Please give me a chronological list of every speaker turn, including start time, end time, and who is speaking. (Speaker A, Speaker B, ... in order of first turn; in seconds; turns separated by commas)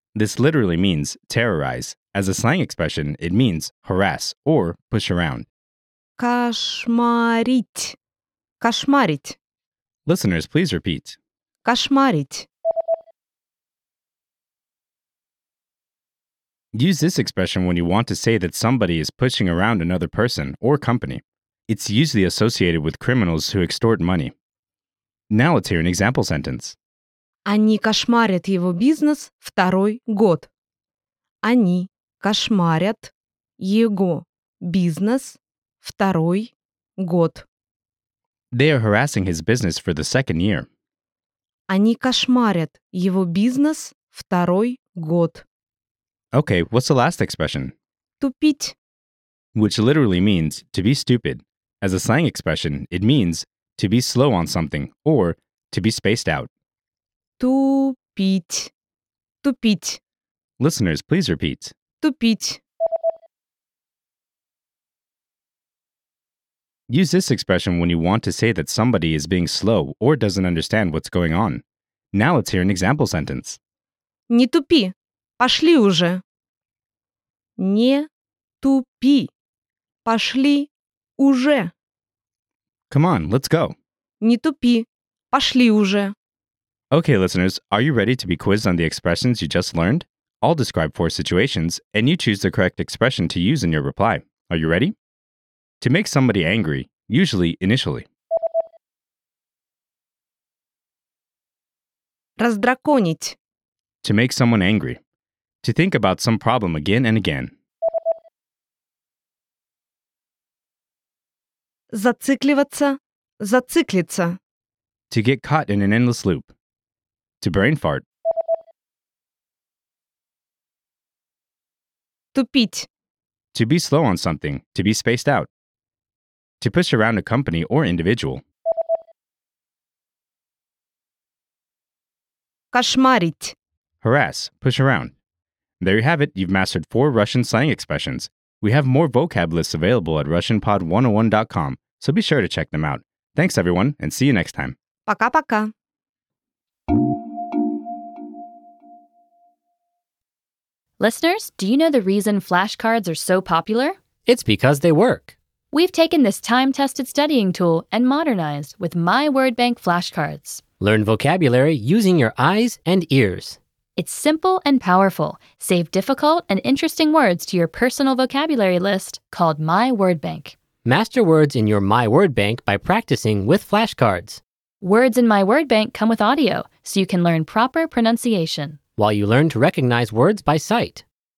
Speaker A: 0.1-5.5, Speaker B: 6.2-8.0, Speaker B: 8.6-9.4, Speaker A: 10.1-11.2, Speaker B: 11.6-12.5, Speaker A: 16.7-24.3, Speaker A: 25.3-26.8, Speaker B: 27.4-30.5, Speaker B: 31.4-37.5, Speaker A: 38.5-40.7, Speaker B: 41.7-45.4, Speaker A: 46.3-47.7, Speaker B: 48.2-48.8, Speaker A: 49.5-56.5, Speaker B: 57.4-58.7, Speaker B: 59.4-60.0, Speaker A: 60.6-61.7, Speaker B: 62.0-62.6, Speaker A: 66.9-73.6, Speaker B: 74.3-76.2, Speaker B: 77.6-78.1, Speaker B: 78.6-79.3, Speaker B: 80.0-81.7, Speaker A: 82.9-83.7, Speaker B: 84.2-86.1, Speaker A: 86.9-94.9, Speaker A: 95.8-98.1, Speaker B: 102.4-103.4, Speaker A: 104.0-105.0, Speaker A: 105.6-107.5, Speaker B: 111.9-114.4, Speaker A: 115.1-116.5, Speaker A: 117.4-118.0, Speaker B: 122.3-122.9, Speaker A: 123.5-125.5, Speaker A: 126.6-128.4, Speaker B: 132.7-133.6, Speaker A: 134.0-135.1, Speaker A: 135.8-144.8, Speaker B: 145.1-145.7, Speaker C: 151.0-154.0, Speaker D: 154.2-155.3, Speaker C: 155.7-160.6, Speaker D: 160.8-163.6, Speaker C: 164.0-170.6, Speaker D: 170.8-174.4, Speaker C: 174.8-178.8, Speaker D: 179.0-181.0